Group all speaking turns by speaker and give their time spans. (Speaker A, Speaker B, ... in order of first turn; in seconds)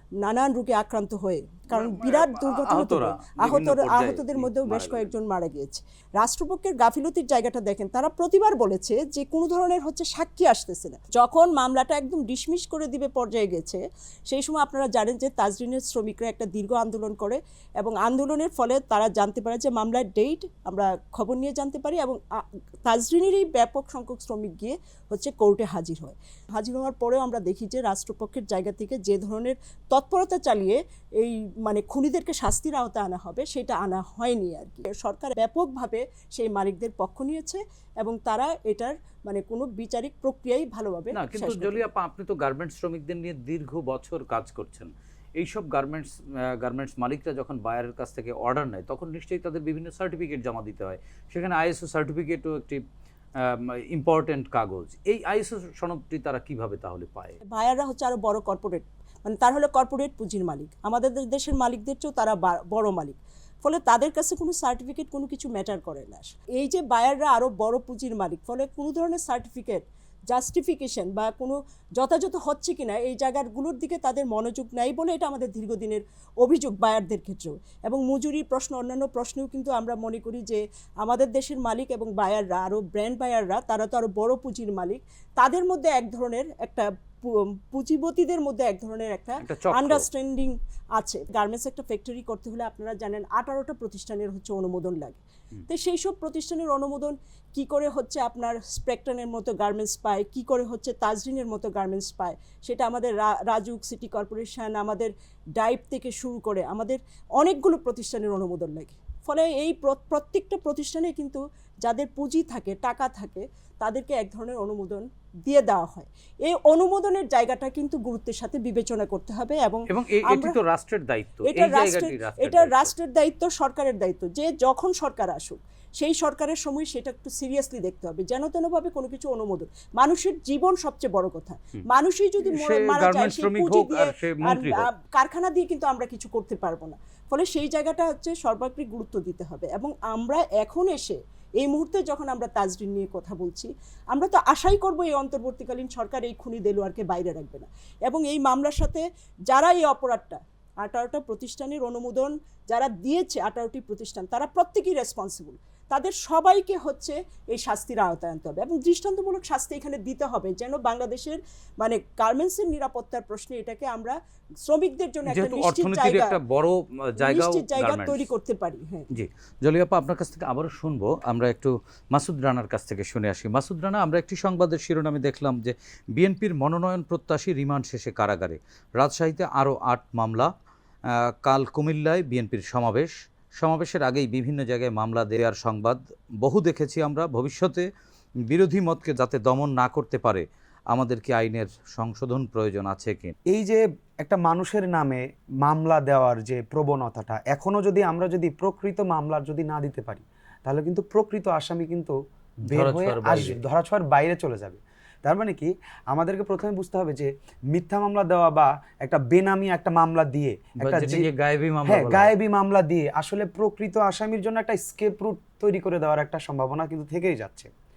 Speaker A: 0.2-41.9, 57.5-120.6, 121.5-166.4, 167.2-169.1
Speaker B: 1.7-5.1, 41.1-52.8, 53.4-57.4, 89.4-90.1, 119.9-122.9, 132.4-134.9, 165.3-168.3, 169.1-180.5, 181.1-187.9, 188.5-193.3, 202.7-203.6, 210.8-212.3
Speaker C: 193.5-211.2, 211.9-217.7